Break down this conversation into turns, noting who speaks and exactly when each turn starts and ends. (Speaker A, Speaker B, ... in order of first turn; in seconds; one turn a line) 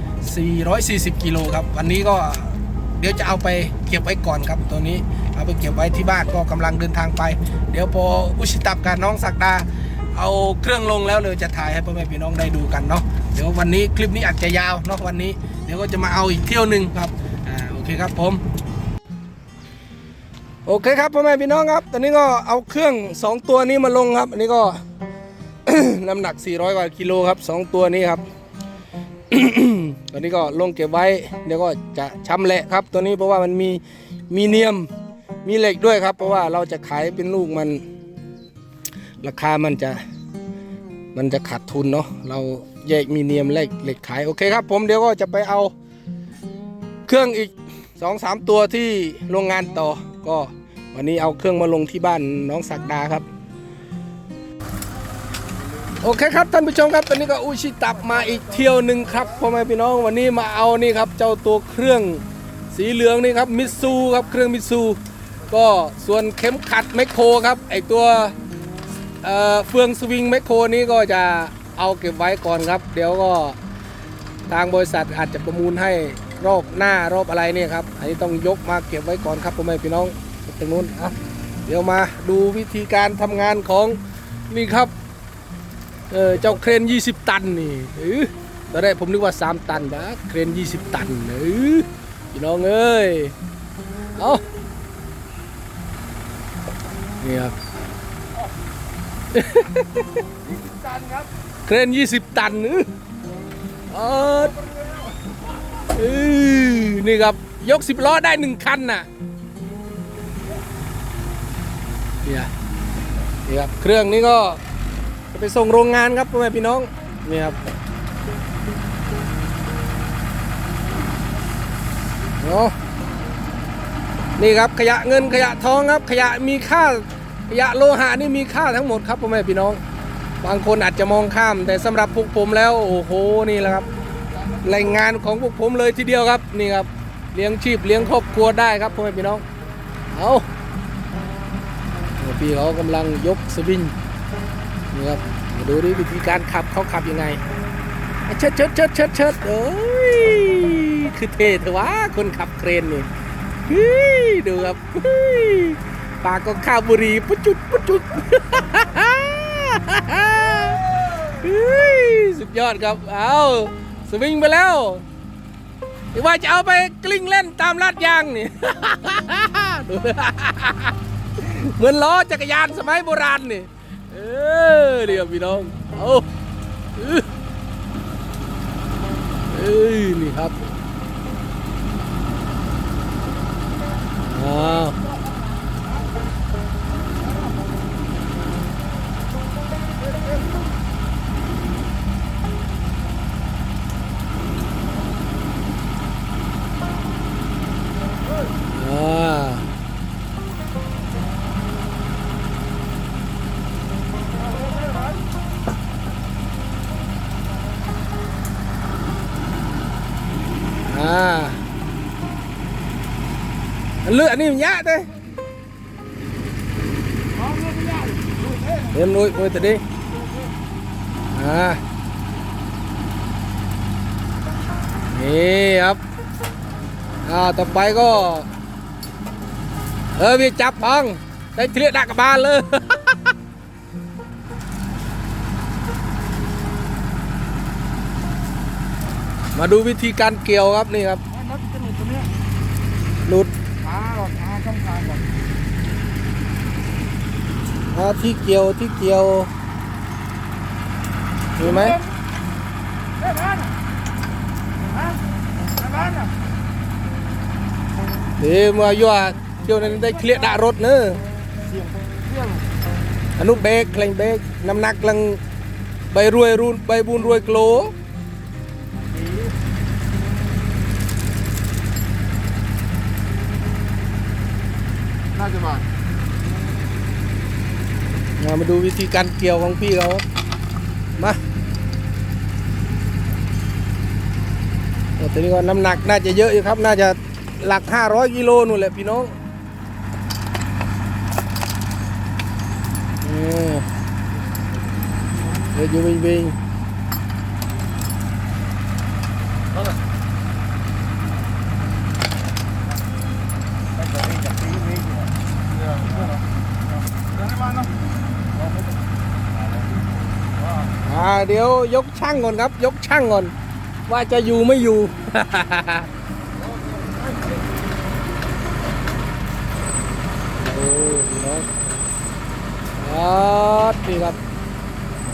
Speaker A: 0.2-18.4
Speaker A: 20.7-24.8
Speaker A: 25.7-28.2
Speaker A: 29.3-34.9
Speaker A: 35.5-37.8
Speaker A: 39.2-40.0
Speaker A: 41.1-45.7
Speaker A: 47.1-53.2
Speaker A: 56.0-68.4
Speaker A: 69.2-73.6
Speaker A: 74.5-84.0
Speaker A: 84.5-84.9
Speaker A: 86.1-93.3
Speaker A: 94.2-94.4
Speaker A: 97.2-97.5
Speaker A: 99.3-100.2
Speaker B: 100.4-101.3
Speaker A: 101.7-102.9
Speaker A: 103.9-104.6
Speaker B: 104.6-105.2
Speaker A: 105.9-109.1
Speaker A: 112.2-112.5
Speaker A: 113.5-114.6
Speaker A: 115.3-117.6
Speaker A: 122.4-122.7
Speaker A: 124.4-129.8
Speaker A: 130.4-133.9
Speaker A: 134.6-139.4
Speaker A: 140.1-140.5
Speaker A: 142.2-143.9
Speaker A: 144.9-147.4
Speaker A: 148.3-153.1
Speaker A: 153.7-165.1
Speaker A: 166.1-176.2
Speaker A: 177.0-177.3
Speaker A: 179.5-180.6
Speaker A: 184.2-185.0
Speaker B: 190.0-190.5
Speaker A: 198.7-199.7
Speaker B: 204.3-205.2
Speaker A: 210.9-211.6
Speaker A: 214.1-215.1
Speaker B: 217.3-219.0
Speaker A: 218.9-219.8
Speaker B: 220.1-220.5
Speaker A: 221.3-221.8
Speaker A: 225.1-226.0
Speaker A: 227.2-228.5
Speaker A: 230.2-233.3
Speaker A: 239.6-241.2
Speaker B: 241.3-242.3
Speaker A: 243.2-243.5
Speaker B: 243.8-245.4
Speaker A: 247.9-249.5
Speaker A: 251.6-252.0
Speaker B: 251.6-252.1
Speaker B: 253.2-253.7
Speaker B: 254.9-255.2
Speaker B: 255.7-256.3
Speaker A: 258.4-261.2
Speaker B: 261.7-262.6
Speaker A: 263.4-265.4
Speaker A: 266.1-267.9
Speaker B: 269.1-269.5
Speaker B: 275.3-275.9
Speaker A: 278.4-280.2
Speaker A: 285.2-289.3
Speaker A: 293.2-293.9
Speaker A: 295.7-296.6
Speaker B: 303.9-306.5
Speaker B: 307.1-307.9
Speaker B: 308.5-310.9
Speaker A: 311.0-313.5
Speaker A: 314.1-316.1
Speaker B: 316.6-317.6
Speaker A: 320.6-321.7
Speaker A: 323.0-324.4